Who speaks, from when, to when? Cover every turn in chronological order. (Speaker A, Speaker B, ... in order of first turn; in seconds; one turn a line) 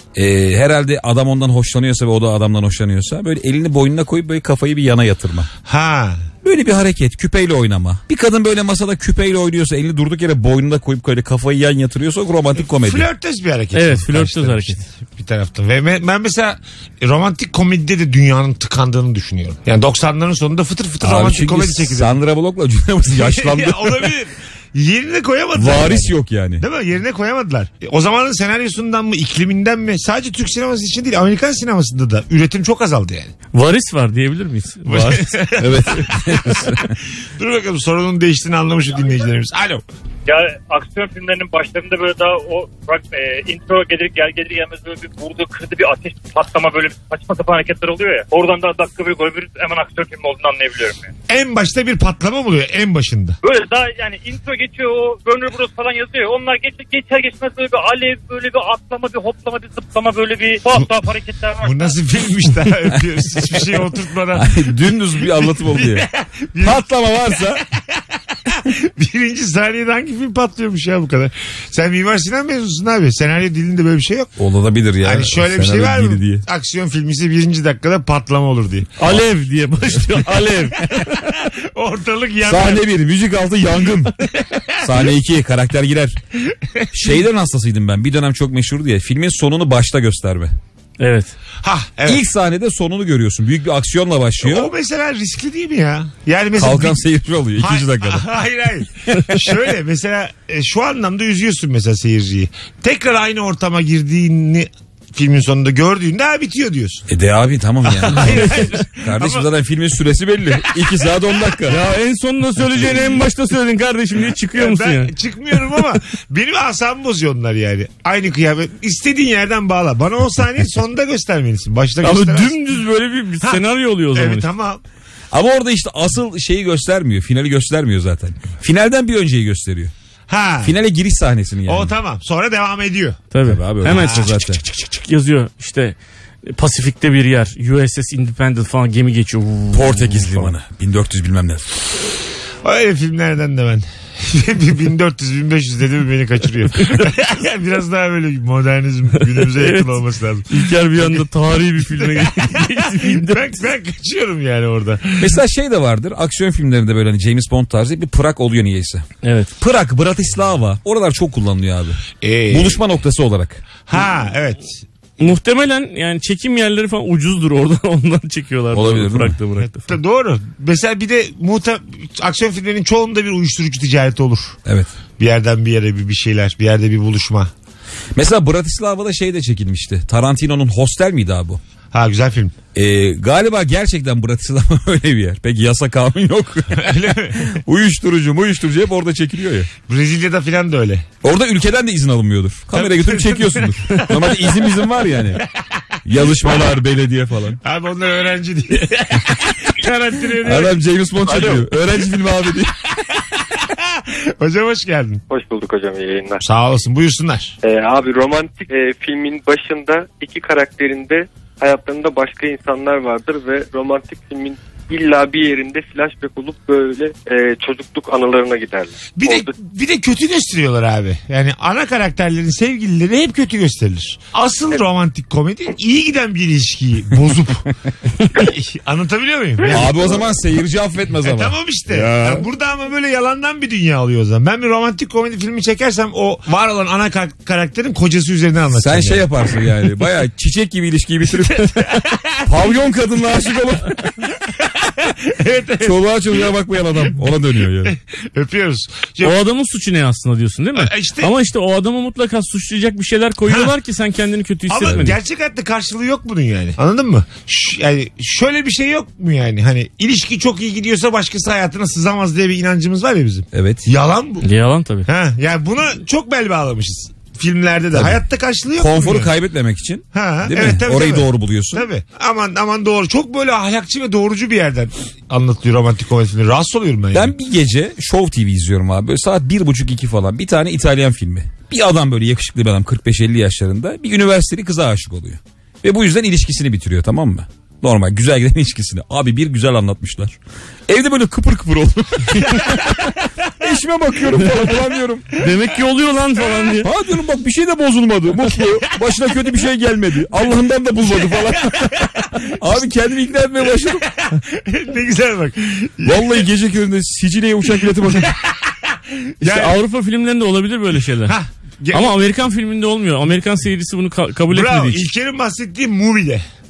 Speaker A: 0.1-5.5
Speaker B: 5.7-6.2
Speaker A: 6.4-13.1
Speaker B: 12.7-22.1
Speaker C: 13.7-14.8
Speaker A: 21.0-24.1
Speaker B: 23.1-33.3
Speaker A: 25.5-26.6
Speaker C: 33.5-35.4
Speaker B: 34.9-36.6
Speaker A: 35.6-36.9
Speaker B: 37.4-39.8
Speaker D: 40.2-51.1
Speaker B: 51.3-53.4
Speaker D: 53.4-61.9
Speaker B: 61.6-64.6
Speaker A: 64.3-66.1
Speaker B: 65.2-66.8
Speaker A: 66.6-67.6
Speaker B: 68.5-74.3
Speaker A: 74.4-76.4
Speaker B: 75.0-78.9
Speaker C: 79.0-81.1
Speaker B: 80.9-82.8
Speaker A: 82.4-84.2
Speaker B: 84.4-84.9
Speaker A: 84.8-86.2
Speaker A: 86.9-90.5
Speaker C: 91.0-91.3
Speaker B: 91.6-92.2
Speaker A: 92.0-94.7
Speaker B: 94.4-97.0
Speaker A: 96.5-98.3
Speaker B: 97.6-107.0
Speaker A: 107.1-111.8
Speaker B: 107.8-109.5
Speaker C: 111.7-115.1
Speaker B: 114.5-122.5
Speaker C: 122.0-124.5
Speaker B: 123.4-124.8
Speaker A: 125.3-129.9
Speaker B: 130.3-130.7
Speaker A: 130.6-131.9
Speaker B: 131.7-133.2
Speaker C: 133.3-140.5
Speaker A: 133.4-134.6
Speaker B: 133.9-134.3
Speaker A: 139.7-141.8
Speaker B: 142.6-151.2
Speaker C: 149.5-153.6
Speaker B: 151.9-155.3
Speaker A: 155.2-159.0
Speaker C: 159.2-159.5
Speaker A: 159.6-163.6
Speaker B: 162.2-162.8
Speaker B: 163.8-164.8
Speaker C: 165.2-169.9
Speaker A: 168.7-169.4
Speaker B: 169.9-174.6
Speaker A: 174.6-174.9
Speaker B: 175.2-177.5
Speaker A: 178.1-181.6
Speaker B: 181.9-182.5
Speaker A: 182.7-189.7
Speaker B: 186.8-187.6
Speaker B: 189.9-191.1
Speaker A: 191.2-195.4
Speaker B: 192.7-194.7
Speaker A: 196.0-197.6
Speaker B: 197.6-200.8
Speaker A: 200.4-202.8
Speaker B: 201.3-201.6
Speaker B: 203.7-205.2
Speaker E: 205.3-206.4
Speaker B: 206.4-207.5
Speaker E: 207.6-219.5
Speaker B: 219.2-227.7
Speaker B: 228.3-230.2
Speaker A: 229.7-232.5
Speaker B: 231.2-239.3
Speaker A: 238.7-241.9
Speaker B: 242.0-242.3
Speaker A: 242.4-244.0
Speaker B: 244.8-246.5
Speaker A: 245.8-247.9
Speaker B: 247.9-249.3
Speaker C: 249.2-255.2
Speaker B: 250.7-251.3
Speaker B: 254.7-264.4
Speaker A: 263.5-263.9
Speaker C: 264.4-265.1
Speaker B: 265.1-269.3
Speaker A: 267.9-268.2
Speaker A: 268.8-271.9
Speaker B: 270.1-277.3
Speaker A: 277.1-293.0
Speaker A: 293.6-295.3
Speaker C: 295.4-296.9
Speaker A: 296.8-304.1
Speaker B: 304.2-306.4
Speaker A: 306.0-308.4
Speaker B: 308.9-309.8
Speaker C: 309.4-311.4
Speaker B: 311.3-312.1
Speaker C: 311.9-315.1
Speaker B: 314.5-316.4